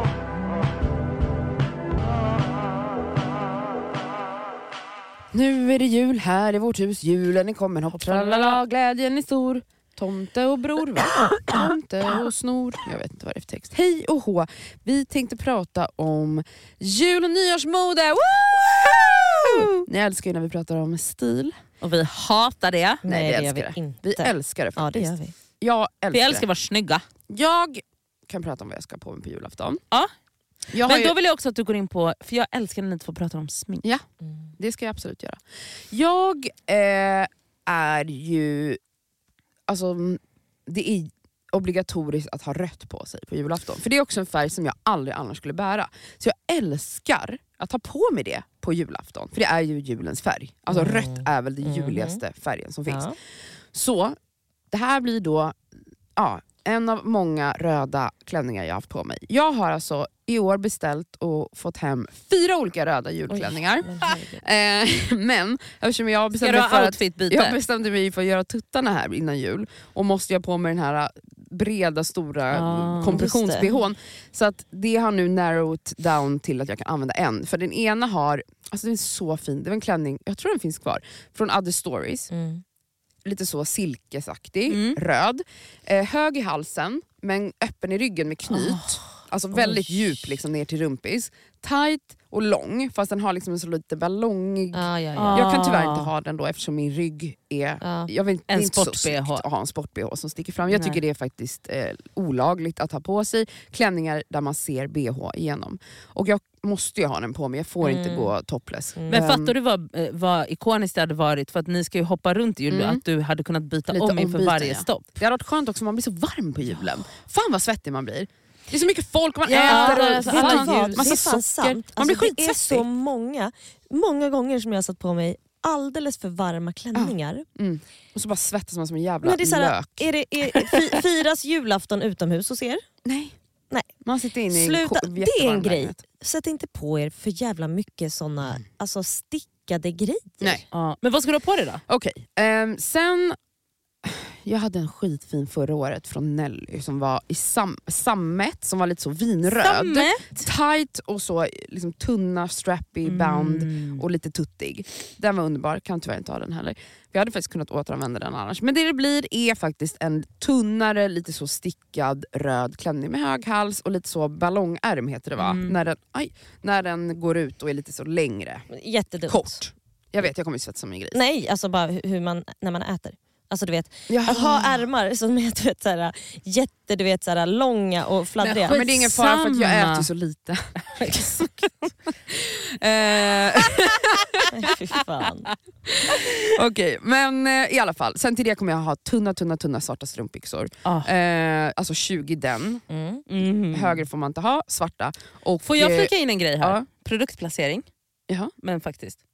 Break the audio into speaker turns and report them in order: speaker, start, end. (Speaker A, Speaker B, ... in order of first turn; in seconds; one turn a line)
Speaker A: 5.3-21.6
Speaker B: 7.9-8.6
Speaker B: 18.7-19.7
Speaker B: 21.8-23.0
Speaker C: 23.0-25.3
Speaker A: 23.0-26.5
Speaker B: 26.1-27.0
Speaker A: 27.3-29.8
Speaker B: 30.7-33.8
Speaker A: 30.7-31.1
Speaker A: 34.6-38.8
Speaker A: 39.7-53.1
Speaker C: 50.7-52.2
Speaker C: 52.9-53.1
Speaker A: 53.7-54.1
Speaker A: 54.7-55.5
Speaker A: 56.2-82.3
Speaker C: 63.3-64.4
Speaker B: 66.4-67.6
Speaker B: 72.5-73.2
Speaker C: 73.1-73.7
Speaker C: 82.3-82.6
Speaker A: 83.2-109.5
Speaker B: 84.7-85.0
Speaker B: 88.5-89.0
Speaker C: 89.5-90.3
Speaker C: 94.7-95.7
Speaker B: 95.1-96.1
Speaker C: 97.8-98.1
Speaker B: 98.5-99.4
Speaker C: 107.8-108.3
Speaker C: 109.0-109.2
Speaker B: 109.1-115.2
Speaker A: 112.7-113.0
Speaker A: 113.9-122.9
Speaker B: 119.5-121.2
Speaker C: 119.6-127.5
Speaker A: 126.9-130.1
Speaker C: 129.2-132.8
Speaker A: 133.0-133.3
Speaker A: 134.0-136.0
Speaker C: 134.5-140.6
Speaker B: 140.7-141.8
Speaker A: 141.9-143.4
Speaker A: 144.0-168.7
Speaker B: 149.5-150.5
Speaker B: 153.0-154.0
Speaker B: 165.4-165.8
Speaker C: 168.7-169.6
Speaker A: 169.2-171.2
Speaker C: 171.1-178.8
Speaker A: 174.1-174.8
Speaker B: 178.4-180.1
Speaker A: 178.7-181.5
Speaker B: 180.9-181.5
Speaker A: 182.3-184.5
Speaker C: 184.5-185.5
Speaker A: 185.9-192.8
Speaker B: 190.8-191.1
Speaker C: 192.9-193.2
Speaker B: 193.3-194.0
Speaker A: 193.7-196.8
Speaker B: 195.7-197.9
Speaker B: 198.6-199.2